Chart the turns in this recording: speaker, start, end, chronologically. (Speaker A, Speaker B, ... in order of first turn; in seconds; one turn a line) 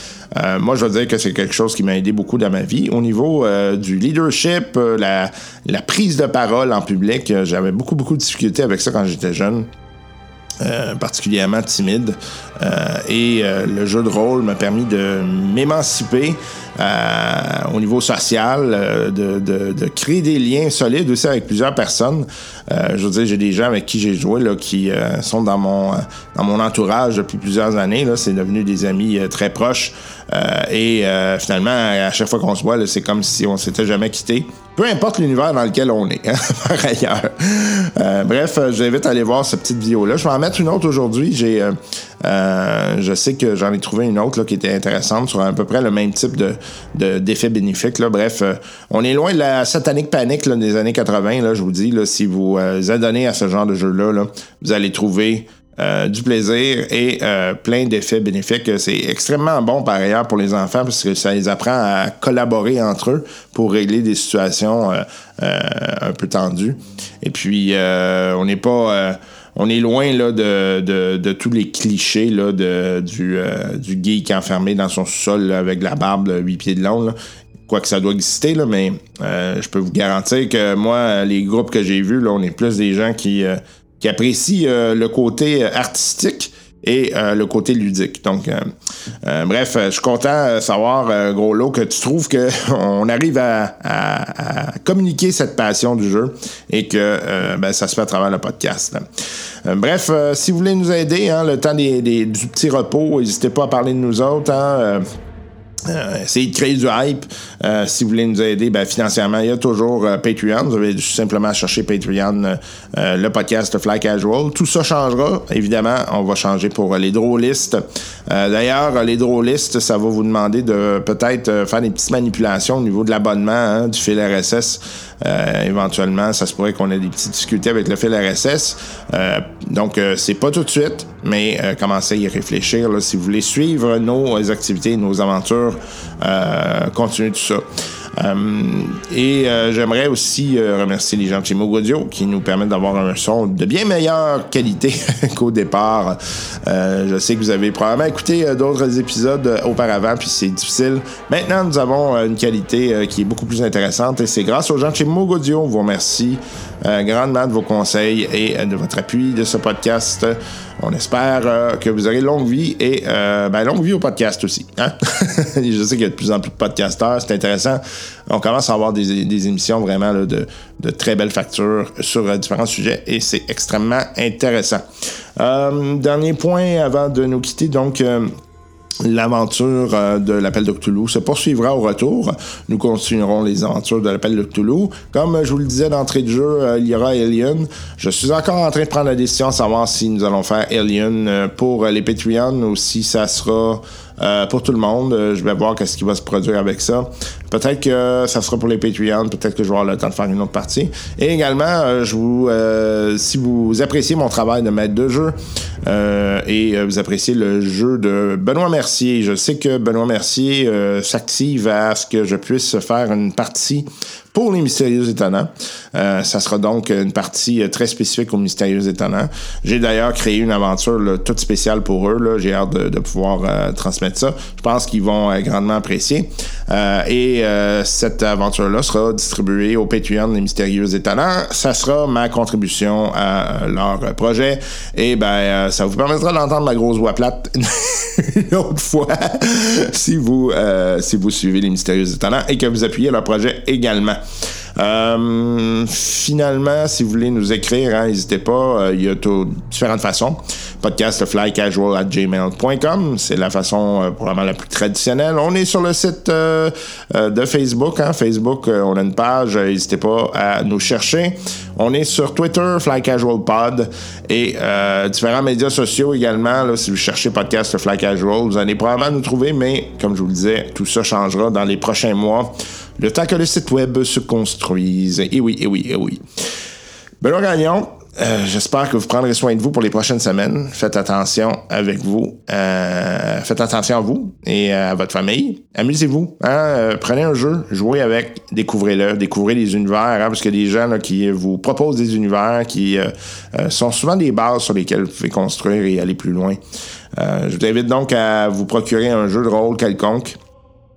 Speaker A: 0.3-9.7
Speaker A: 10.6-77.2
Speaker A: 77.7-88.7
Speaker A: 89.2-99.0
Speaker A: 99.7-105.0
Speaker A: 105.8-174.9
Speaker A: 175.4-178.3
Speaker A: 179.0-244.2
Speaker A: 244.8-276.2
Speaker A: 277.2-296.6
Speaker A: 297.2-300.4